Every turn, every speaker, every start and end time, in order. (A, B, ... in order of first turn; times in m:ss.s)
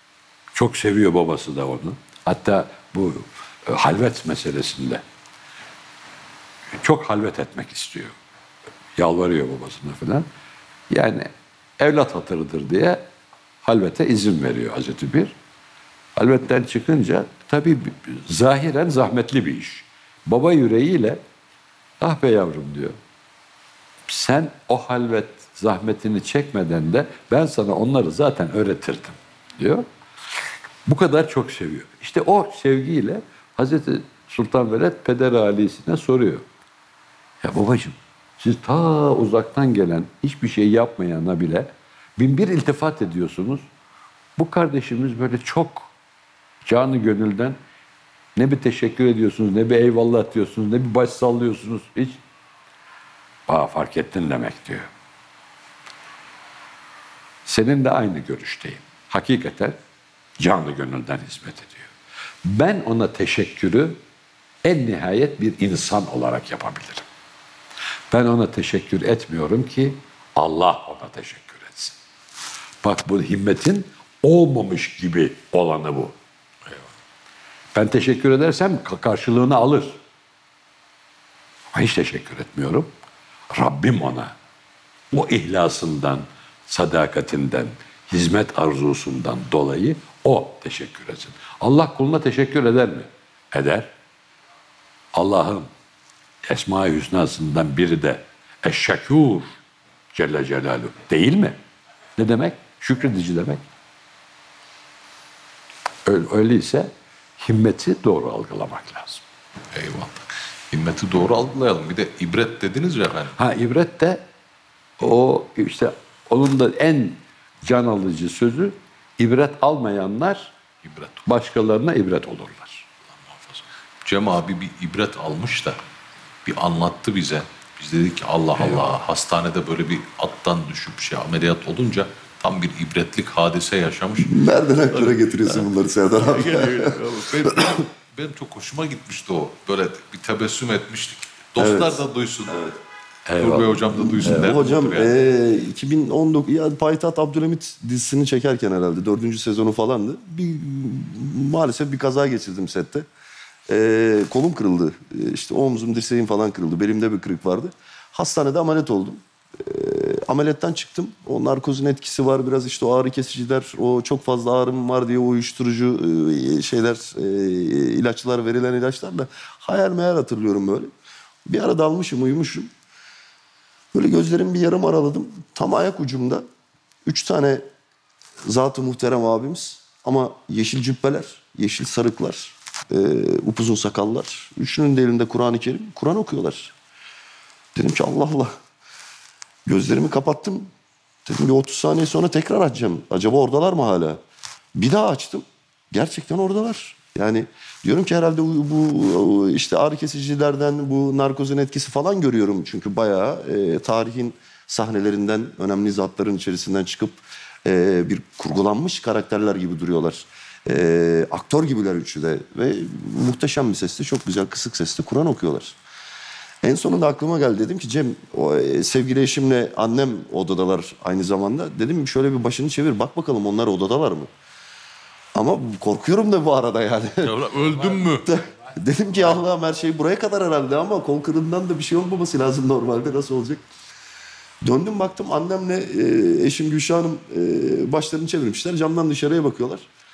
0:00.5-0:05.0 A
0:06.8-0:08.1 A
0:09.0-0:10.2 A
0:10.9-0:13.0 A
0:13.6-0:15.3 A
0:16.2-0:21.2 A
0:22.0-0:23.0 A
0:24.1-0:29.8 A
0:30.8-0:36.4 A
0:37.4-0:43.6 A
0:44.4-0:45.9 A
0:46.6-0:47.6 A
0:48.4-0:52.2 A
0:53.5-0:54.9 A
0:57.4-0:59.8 A
1:00.4-1:01.9 A
1:02.4-1:04.0 A
1:04.6-1:07.0 A
1:08.1-1:12.0 A
1:12.8-1:16.1 A
1:17.7-1:20.0 A
1:21.7-1:22.9 A
1:23.5-1:24.3 A
1:25.1-1:33.9 A
1:35.1-1:35.7 A
1:36.5-1:39.6 A
1:40.1-1:41.6 A
1:42.2-1:43.6 A
1:46.0-1:49.2 A
1:49.7-1:53.4 B
1:53.4-1:54.2 A
1:55.0-2:00.5 A
2:00.8-2:01.2 B
2:01.2-2:02.8 A
2:03.3-2:05.8 B
2:06.4-2:22.7 B
2:14.2-2:17.8 C
2:21.6-2:22.6 C
2:23.3-2:24.6 A
2:23.4-2:25.2 B
2:24.0-2:33.0 C
2:33.7-2:50.9 C
2:51.4-2:52.7 C
2:53.9-2:56.4 C
2:57.0-2:57.6 C
2:58.4-3:06.7 C
3:07.8-3:08.5 C
3:09.6-3:10.7 C
3:11.2-3:14.2 C
3:14.7-3:35.8 C
3:36.6-3:44.3 C
3:45.3-3:47.4 C
3:47.2-3:48.3 B
3:48.0-3:48.8 A
3:48.2-3:53.6 C
3:54.6-3:59.9 C